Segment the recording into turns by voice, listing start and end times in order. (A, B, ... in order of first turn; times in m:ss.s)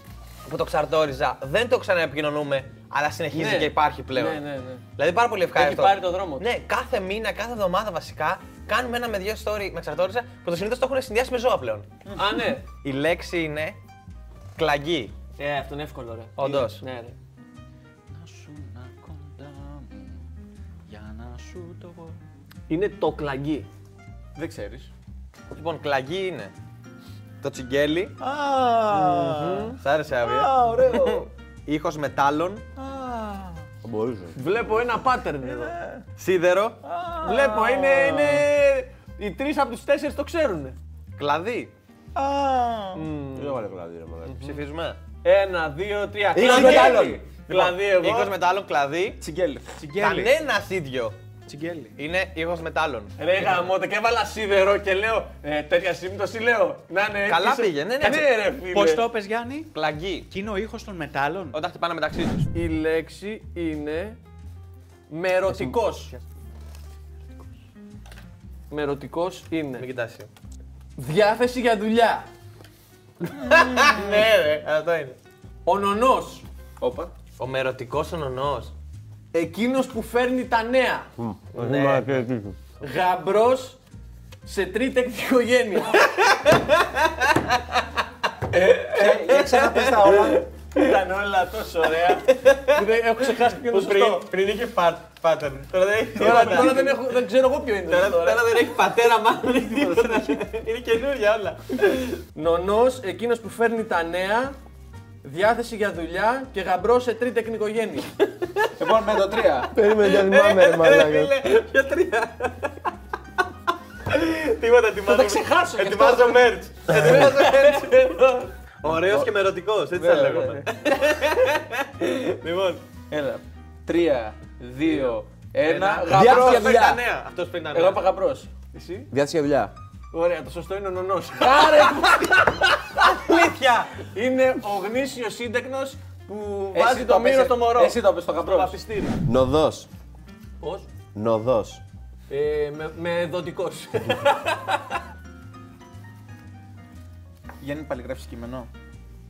0:00.5-0:04.4 A
0:03.3-0:04.8 B
0:05.0-0:11.9 A
0:05.6-0:06.4 B
0:12.1-0:12.4 C
0:12.2-0:12.6 B
0:12.8-0:13.8 A
0:14.6-0:15.1 A
0:15.4-0:17.2 B
0:16.4-0:16.8 A
0:18.1-0:20.2 D
0:20.9-0:22.1 D
0:22.7-0:23.7 B
0:24.4-0:24.9 C
0:25.5-0:26.5 A
0:27.4-0:28.2 A
0:28.2-0:29.7 C
0:29.0-0:29.8 B
0:29.7-0:32.7 A
0:30.2-0:31.3 C
0:32.8-0:33.6 C
0:33.8-0:34.4 E
0:34.4-0:35.8 B
0:36.2-0:36.8 A
0:36.8-0:38.4 C
0:37.2-0:40.8 B
0:41.2-0:41.7 A
0:42.2-0:43.0 C
0:43.0-0:43.6 B
0:43.4-0:44.4 E
0:44.2-0:44.6 B
0:44.4-0:45.0 A
0:45.2-0:48.3 B
0:46.3-0:47.2 E
0:46.4-0:47.2 C
0:46.4-0:49.2 A
0:49.2-0:49.8 C
0:49.8-0:50.3 D
0:50.0-0:51.2 A
0:51.5-0:52.0 D
0:52.0-0:53.1 A
0:53.2-0:59.1 B
0:57.2-0:58.3 A
0:58.7-0:59.7 D
0:59.7-1:00.3 A
1:00.3-1:01.6 D
1:01.5-1:02.5 A
1:02.5-1:04.2 B
1:05.1-1:06.1 B
1:08.7-1:09.9 B
1:09.8-1:10.3 A
1:11.0-1:12.3 B
1:13.3-1:15.2 A
1:15.6-1:16.5 B
1:16.8-1:17.1 C
1:17.4-1:18.7 A
1:19.3-1:21.1 B
1:21.2-1:22.6 E
1:21.6-1:22.2 A
1:22.8-1:23.8 B
1:24.4-1:26.0 B
1:26.2-1:27.4 A
1:28.9-1:30.5 C
1:29.0-1:30.4 A
1:30.7-1:34.2 B
1:32.3-1:32.8 A
1:33.7-1:37.0 A
1:36.2-1:38.5 B
1:37.9-1:42.2 A
1:39.7-1:40.2 C
1:42.4-1:44.6 B
1:45.2-1:48.1 B
1:48.8-1:49.7 C
1:49.7-1:51.4 E
1:50.0-1:52.8 A
1:54.1-1:58.2 A
1:55.0-1:56.6 C
1:56.9-1:58.5 B
1:58.8-2:02.1 A
2:00.0-2:00.6 C
2:00.2-2:00.6 B
2:02.4-2:02.8 B
2:03.1-2:07.0 C
2:05.6-2:06.4 B
2:06.1-2:07.0 E
2:06.1-2:08.0 A
2:07.7-2:08.5 C
2:08.7-2:09.1 B
2:09.1-2:09.7 E
2:10.1-2:13.0 B
2:11.4-2:12.2 C
2:12.9-2:13.9 A
2:14.0-2:19.2 B
2:16.7-2:18.8 C
2:19.2-2:19.9 E
2:20.6-2:20.9 B
2:21.1-2:21.8 E
2:22.3-2:25.0 B
2:27.6-2:28.7 C